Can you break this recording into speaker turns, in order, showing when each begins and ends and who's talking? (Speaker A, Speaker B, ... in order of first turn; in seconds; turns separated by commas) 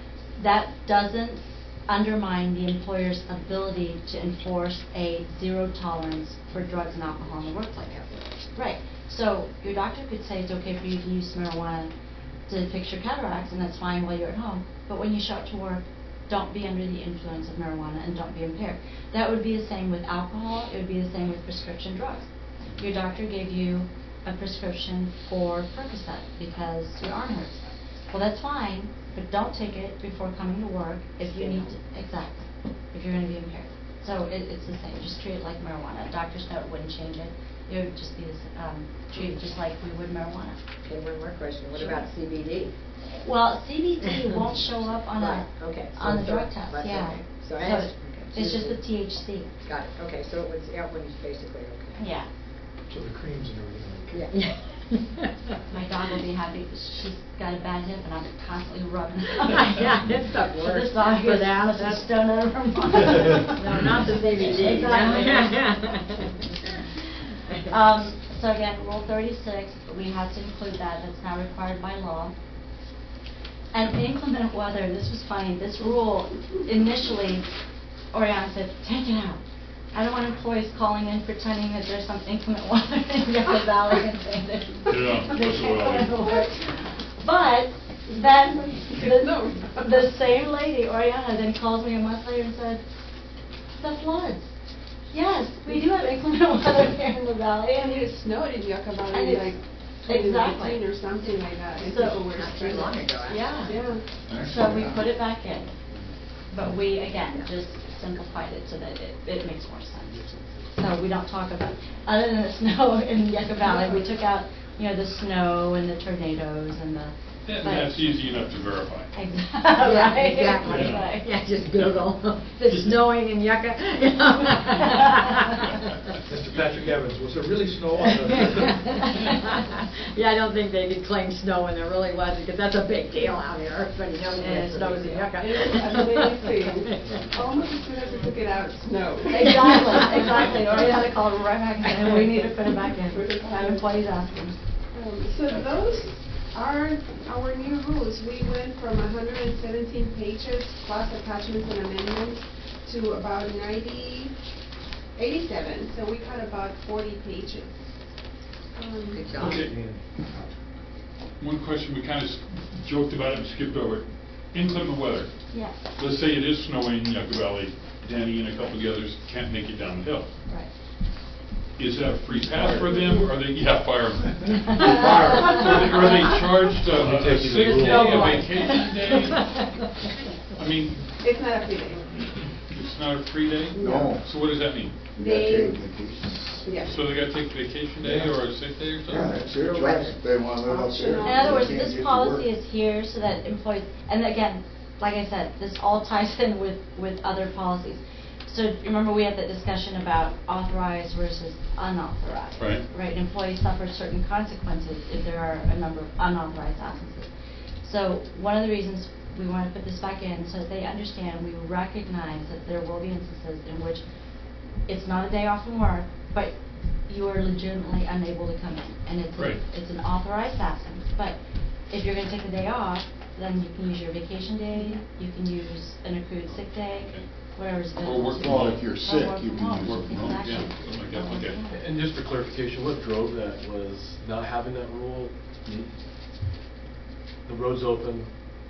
Speaker A: 0.4-11.9, Speaker A: 12.5-40.6, Speaker B: 31.3-31.7, Speaker B: 40.8-42.7, Speaker A: 43.2-49.5, Speaker B: 45.1-48.8, Speaker B: 49.6-52.0, Speaker A: 52.0-52.3, Speaker C: 52.9-54.2, Speaker B: 54.1-55.3, Speaker A: 55.7-66.2, Speaker B: 59.5-62.1, Speaker B: 63.5-66.5, Speaker A: 67.7-72.3, Speaker A: 73.7-77.4, Speaker A: 78.1-79.4, Speaker A: 79.9-92.8, Speaker D: 84.9-86.1, Speaker E: 86.2-86.5, Speaker E: 88.9-90.3, Speaker A: 93.7-94.5, Speaker A: 95.1-98.0, Speaker E: 97.8-103.1, Speaker A: 99.1-99.5, Speaker A: 100.0-100.8, Speaker A: 101.8-102.2, Speaker B: 102.3-103.6, Speaker A: 103.2-103.8, Speaker E: 103.6-104.1, Speaker F: 104.2-105.1, Speaker A: 104.3-105.7, Speaker A: 106.5-118.0, Speaker E: 113.6-114.0, Speaker D: 117.4-119.1, Speaker A: 119.1-121.3, Speaker B: 119.7-125.8, Speaker D: 120.6-121.1, Speaker C: 126.2-129.1, Speaker B: 127.9-137.1, Speaker A: 134.4-135.0, Speaker E: 134.8-141.1, Speaker A: 139.3-144.6, Speaker B: 139.6-140.1, Speaker B: 142.0-142.4, Speaker E: 142.9-144.1, Speaker E: 144.9-154.5, Speaker E: 155.1-157.8, Speaker E: 158.7-159.6, Speaker B: 159.1-159.6, Speaker D: 159.4-159.7, Speaker C: 159.6-160.0, Speaker D: 161.4-165.4, Speaker A: 165.5-165.8, Speaker D: 165.9-170.3, Speaker D: 171.8-179.9, Speaker E: 172.7-173.4, Speaker F: 174.8-175.7, Speaker G: 176.8-178.5, Speaker B: 178.1-178.7, Speaker A: 178.1-178.6, Speaker D: 180.5-181.1, Speaker E: 181.2-182.0, Speaker D: 182.7-184.9, Speaker E: 183.7-184.1, Speaker F: 183.8-184.2, Speaker E: 185.1-185.8, Speaker F: 185.2-186.7, Speaker E: 186.6-187.0, Speaker D: 186.8-189.4, Speaker F: 188.0-188.5, Speaker F: 189.1-192.5, Speaker B: 189.6-190.1, Speaker E: 190.6-191.7, Speaker A: 191.2-207.3, Speaker D: 202.6-202.8, Speaker A: 207.8-214.0, Speaker A: 214.8-231.8, Speaker D: 226.9-227.3, Speaker D: 228.0-228.9, Speaker F: 228.3-230.5, Speaker D: 229.7-231.6, Speaker G: 231.7-235.3, Speaker G: 237.4-238.3